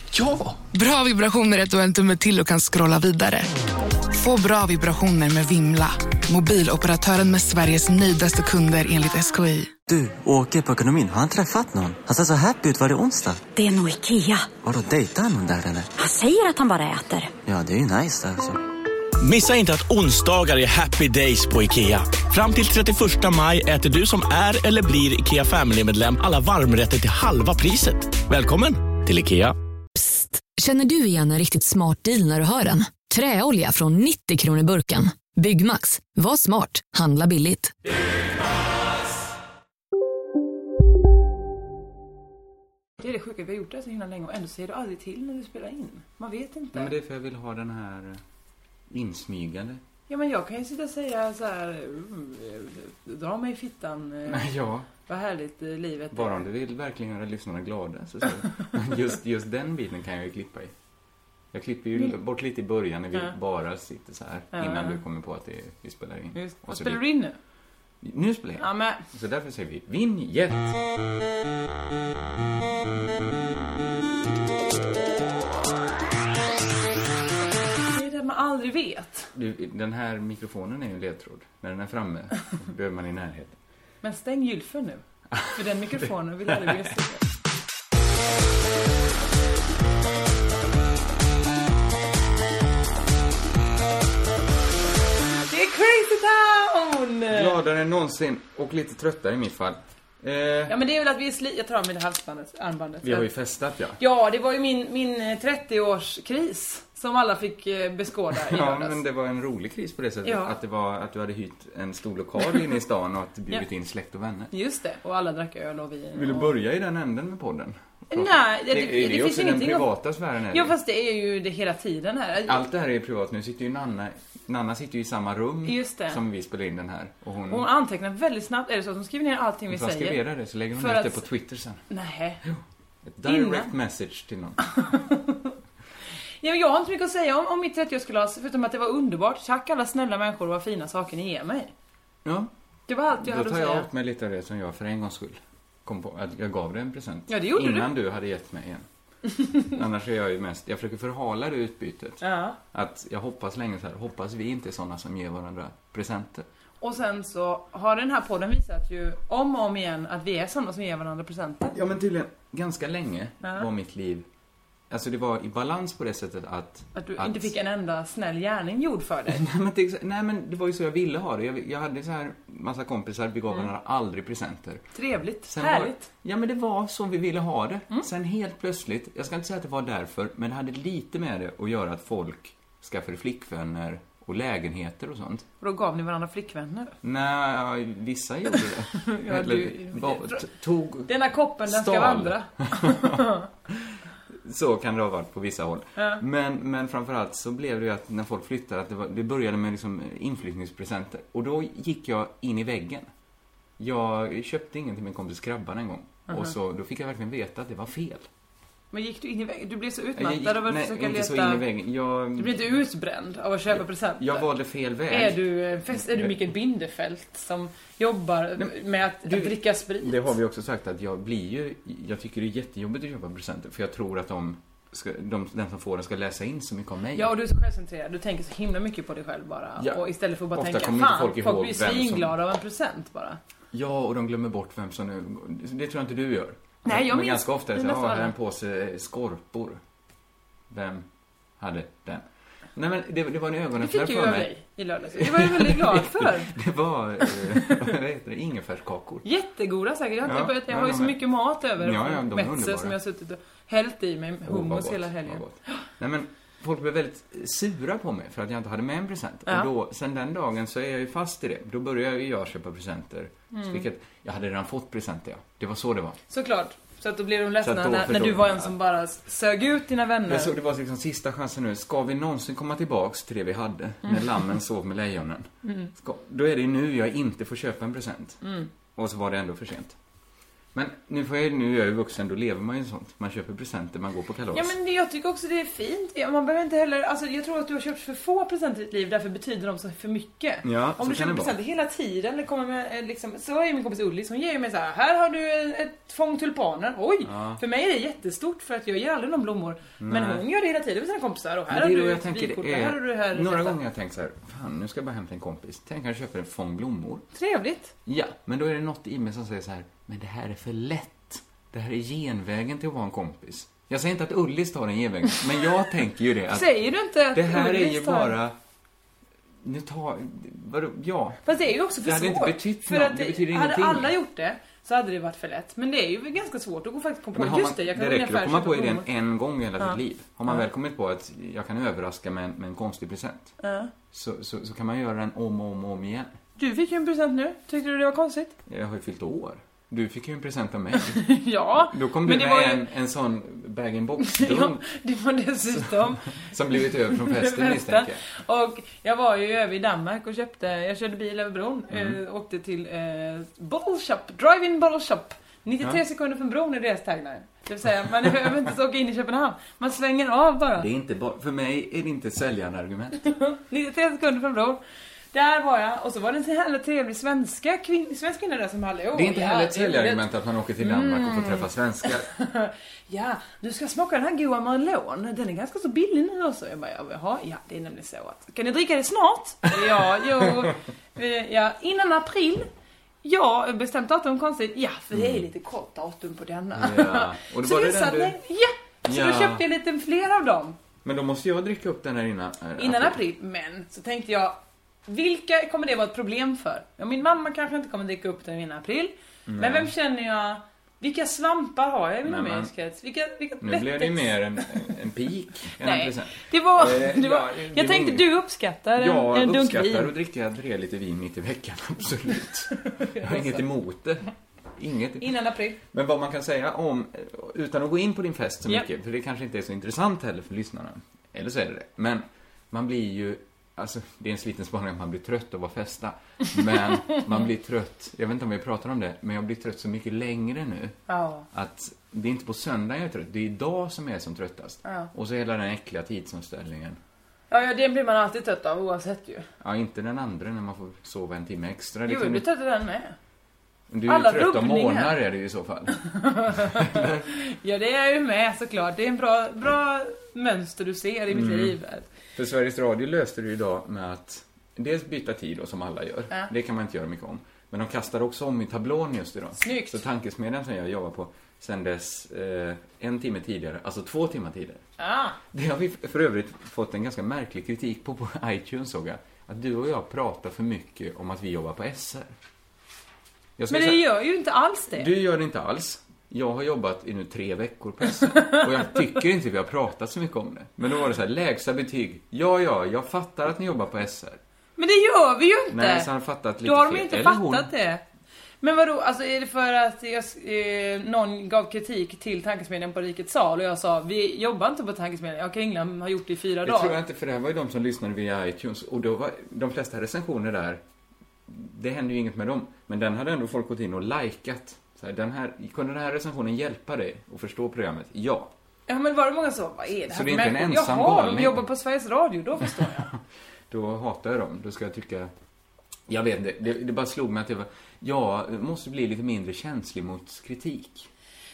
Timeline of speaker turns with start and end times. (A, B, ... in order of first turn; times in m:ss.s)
0:00.6-0:03.5 A
0:04.1-0:09.7 A
0:09.9-0:13.4 B
0:13.5-0:14.5 C
0:14.6-0:15.9 B
0:16.0-0:17.3 C
0:17.4-0:18.6 B
0:19.2-0:29.5 D
0:29.9-0:37.7 E
0:43.0-0:46.9 F
0:46.7-0:48.2 G
0:48.9-0:49.8 G
0:50.1-0:54.5 F
0:54.2-0:54.9 G
0:55.0-0:56.4 F
0:56.1-1:00.7 G
1:01.5-1:07.0 G
1:04.5-1:05.0 F
1:06.3-1:07.4 F
1:08.0-1:10.8 G
1:08.6-1:09.0 F
1:17.9-1:19.3 F
1:19.3-1:23.6 G
1:24.0-1:27.2 F
1:26.5-1:26.8 G
1:35.5-1:37.5 F
1:37.3-1:40.8 G
1:40.7-1:43.3 F
1:43.0-1:44.0 G
1:44.0-1:49.0 F
1:48.3-1:54.5 G
1:50.2-1:50.5 F
1:54.5-1:56.5 F
1:56.1-2:00.7 G
1:58.1-1:59.9 F
2:00.5-2:02.6 F
2:02.4-2:07.6 G
2:05.6-2:06.2 F
2:07.5-2:10.2 F
2:09.7-2:11.8 G
2:10.7-2:11.2 F
2:11.9-2:12.4 F
2:12.4-2:14.6 G
2:13.2-2:13.7 F
2:14.6-2:15.5 F
2:16.4-2:21.7 F
2:22.2-2:22.5 G
2:22.9-2:23.9 F
2:23.1-2:28.8 G
2:27.3-2:27.9 F
2:29.6-2:32.2 G
2:32.2-2:32.6 F
2:32.7-2:36.4 G
2:36.8-2:41.7 F
2:41.7-2:44.2 G
2:44.9-2:47.5 G
2:46.9-2:49.4 F
2:49.3-2:54.8 G
2:54.9-2:56.1 F
2:55.5-3:05.4 G
3:05.6-3:06.9 F
3:07.0-3:23.1 G
3:09.0-3:10.4 F
3:11.0-3:13.4 F
3:16.0-3:16.2 F
3:23.8-3:28.3 G
3:28.9-3:31.6 F
3:30.2-3:32.7 G
3:32.4-3:34.5 F
3:33.7-3:36.4 G
3:35.1-3:40.3 F
3:38.6-3:47.3 G
3:47.1-3:53.4 F
3:50.5-3:52.4 G
3:53.7-3:59.8 G
3:56.8-3:58.3 F
4:00.7-4:01.0 G
4:01.6-4:02.2 G
4:02.8-4:04.5 G
4:03.8-4:06.5 F
4:05.1-4:09.2 G
4:07.2-4:07.8 F
4:09.2-4:15.4 F
4:10.2-4:11.2 G
4:11.8-4:13.0 G
4:14.4-4:26.2 G
4:23.5-4:23.8 F
4:26.3-4:30.5 F
4:27.6-4:28.7 G
4:30.3-4:38.4 G
4:35.6-4:35.9 F
4:38.4-4:38.7 F
4:38.9-4:40.0 G
4:40.7-4:44.7 G
4:44.5-5:03.8 F
4:50.6-4:51.6 G
4:57.2-4:57.6 G
5:00.0-5:00.4 G
5:01.7-5:07.2 G
5:07.3-5:07.9 F
5:08.0-5:16.7 G
5:16.5-5:18.3 F
5:17.3-5:18.6 G
5:19.6-5:21.4 G
5:21.4-5:29.1 F
5:22.0-5:24.1 G
5:27.3-5:33.5 G
5:33.6-5:33.9 F
5:34.1-5:36.3 G
5:36.6-5:38.5 F
5:38.7-5:44.8 G
5:41.0-5:42.8 F
5:44.2-5:46.2 F
5:45.7-5:48.2 G
5:46.8-6:00.9 F
5:51.9-5:52.2 G
6:00.8-6:03.2 G
6:03.3-6:04.8 F
6:05.3-6:10.2 F
6:09.1-6:12.3 G
6:10.8-6:22.7 F
6:19.7-6:20.7 G
6:23.2-6:30.8 F
6:25.1-6:25.4 G
6:26.7-6:28.4 G
6:29.0-6:29.6 G
6:31.0-6:33.2 G
6:32.8-6:44.7 F
6:39.5-6:39.9 G
6:42.2-6:42.7 G
6:43.6-6:48.3 G
6:45.8-6:50.1 F
6:48.9-6:54.2 G
6:52.8-6:53.7 F
6:54.8-7:11.0 G
6:55.2-6:55.8 F
7:11.1-7:11.4 F
7:11.5-7:17.0 G
7:14.8-7:15.1 F
7:17.5-7:19.5 F
7:19.6-7:22.4 G
7:22.1-7:23.1 F
7:23.9-7:27.3 G
7:24.1-7:25.2 F
7:25.9-7:32.1 F
7:31.3-7:31.8 G
7:32.3-7:44.8 G
7:39.6-7:40.0 F
7:45.0-7:45.4 F
7:45.5-7:52.3 G
7:53.6-7:54.0 G
7:53.7-7:55.1 F
7:54.9-8:04.4 G
8:04.8-8:06.1 F
8:05.7-8:07.7 G
8:06.6-8:08.0 F
8:08.6-8:17.0 F
8:16.6-8:20.8 G
8:21.5-8:28.5 G
8:28.9-8:33.1 F
8:30.1-8:31.6 G
8:32.6-8:33.2 G
8:33.7-8:35.3 G
8:36.1-8:41.1 G